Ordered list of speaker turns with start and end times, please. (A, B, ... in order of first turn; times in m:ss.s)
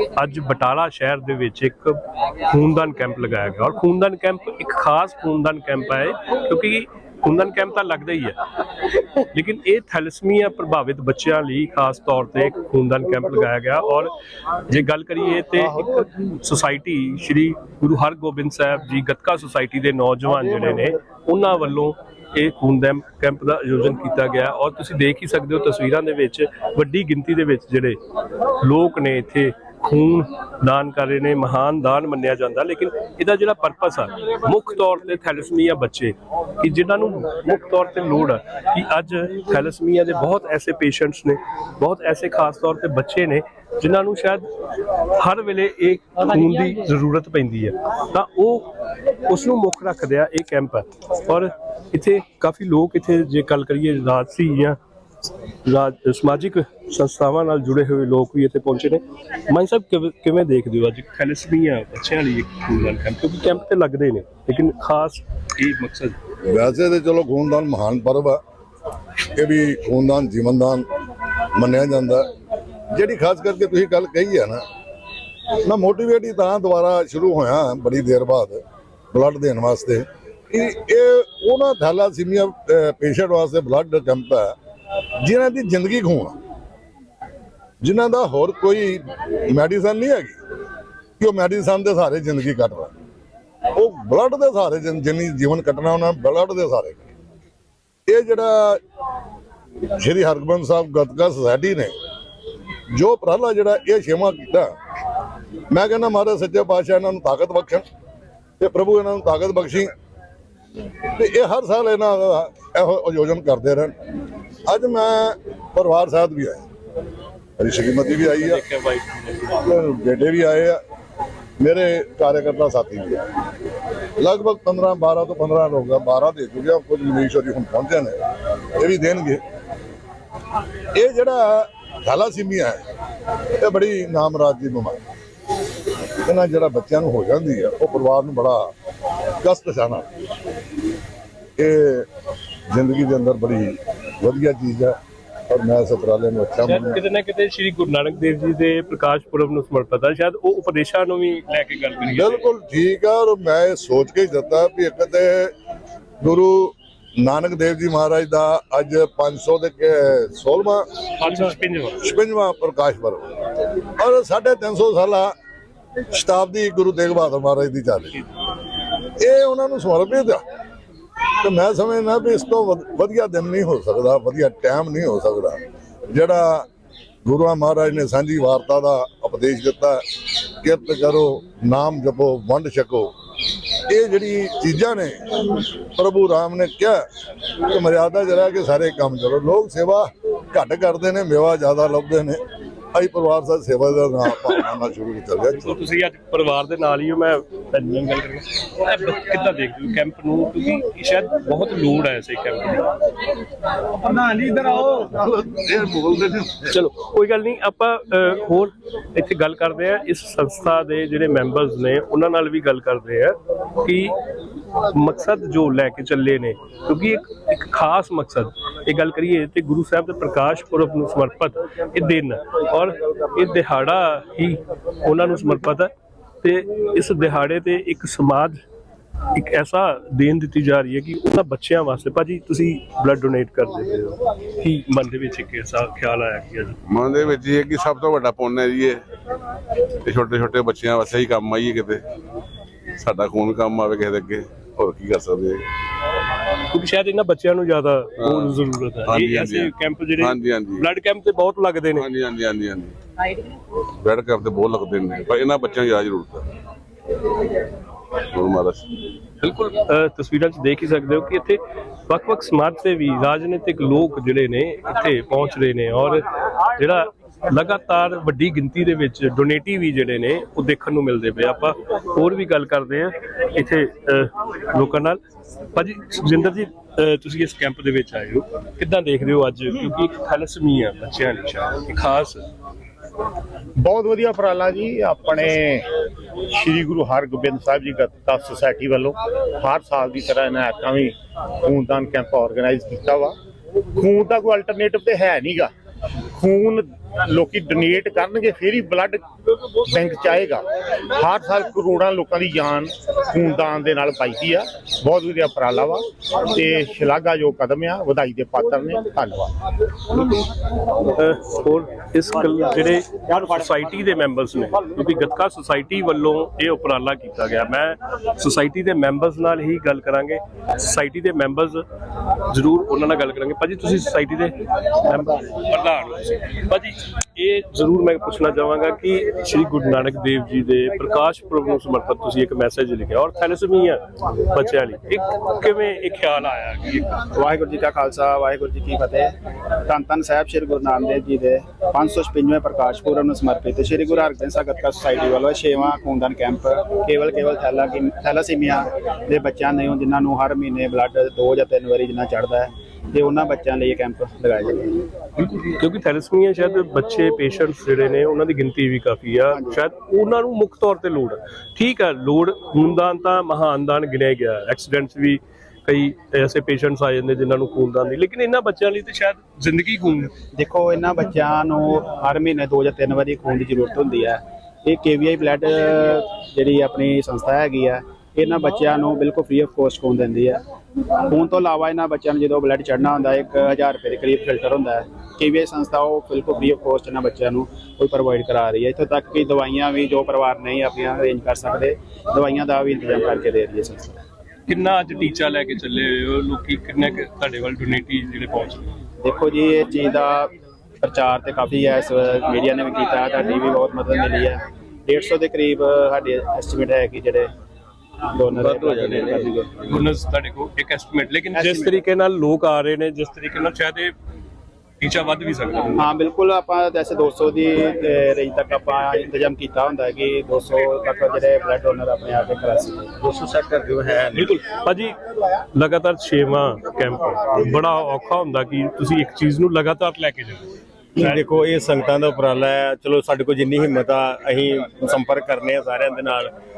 0:00.1-0:08.4 A
0:09.2-0:14.1 A
0:14.7-0:28.0 A
0:28.6-0:44.5 A
0:45.2-0:48.7 A
0:49.2-0:54.8 A
0:55.6-1:06.2 A
1:06.4-1:08.4 B
1:09.4-1:10.9 B
1:11.6-1:12.3 B
1:12.9-1:14.6 B
1:15.6-1:18.6 B
1:19.1-1:24.6 B
1:25.2-1:26.4 B
1:27.8-1:30.4 B
1:31.2-1:32.9 B
1:33.7-1:37.1 B
1:38.1-1:38.8 B
1:39.9-1:41.9 B
1:42.9-1:44.7 B
1:45.7-1:47.8 B
1:48.6-1:49.9 B
1:51.2-1:54.0 B
1:54.7-1:56.6 B
1:57.6-1:58.6 B
1:58.2-1:59.6 A
1:59.6-2:00.8 B
2:01.6-2:03.2 B
2:04.2-2:08.2 B
2:08.8-2:09.4 B
2:10.9-2:12.8 B
2:13.6-2:15.0 B
2:16.2-2:18.7 B
2:19.4-2:20.1 B
2:21.6-2:22.1 B
2:22.7-2:25.0 B
2:25.5-2:27.0 B
2:26.7-2:32.5 A
2:32.0-2:35.5 B
2:36.2-2:40.9 B
2:41.2-2:42.0 A
2:42.0-2:43.3 B
2:44.0-2:45.3 B
2:46.1-2:48.2 B
2:49.2-2:50.4 B
2:51.4-2:55.6 B
2:56.1-2:56.7 B
2:57.2-3:00.0 B
3:00.6-3:03.1 B
3:03.9-3:07.0 B
3:07.6-3:12.4 B
3:12.9-3:15.8 B
3:15.6-3:22.9 A
3:24.2-3:26.5 B
3:26.6-3:34.2 A
3:34.9-3:45.9 A
3:46.4-3:48.6 A
3:49.3-3:56.8 A
3:56.9-3:59.0 C
4:00.0-4:02.0 C
4:03.0-4:05.6 C
4:06.7-4:12.0 A
4:08.2-4:10.8 C
4:11.9-4:13.0 C
4:14.0-4:16.5 C
4:18.3-4:18.8 C
4:19.4-4:26.2 A
4:26.8-4:35.2 A
4:35.8-4:42.5 A
4:43.8-4:45.8 D
4:46.5-4:51.1 D
4:51.7-4:53.3 D
4:54.0-4:55.7 D
4:56.4-4:59.2 D
4:59.8-5:00.6 D
5:01.2-5:09.5 D
5:11.1-5:21.8 A
5:22.5-5:37.2 A
5:37.3-5:39.3 E
5:39.9-5:54.9 E
5:55.4-6:10.3 A
6:10.6-6:20.6 E
6:21.3-6:34.2 E
6:34.7-6:38.9 A
6:39.2-6:47.5 E
6:48.3-6:49.7 E
6:48.6-6:49.5 C
6:49.9-6:54.1 A
6:51.5-6:51.9 E
6:55.0-6:56.0 A
6:56.0-7:03.2 E
7:03.2-7:04.5 F
7:04.3-7:05.2 A
7:05.8-7:11.4 A
7:11.2-7:16.5 F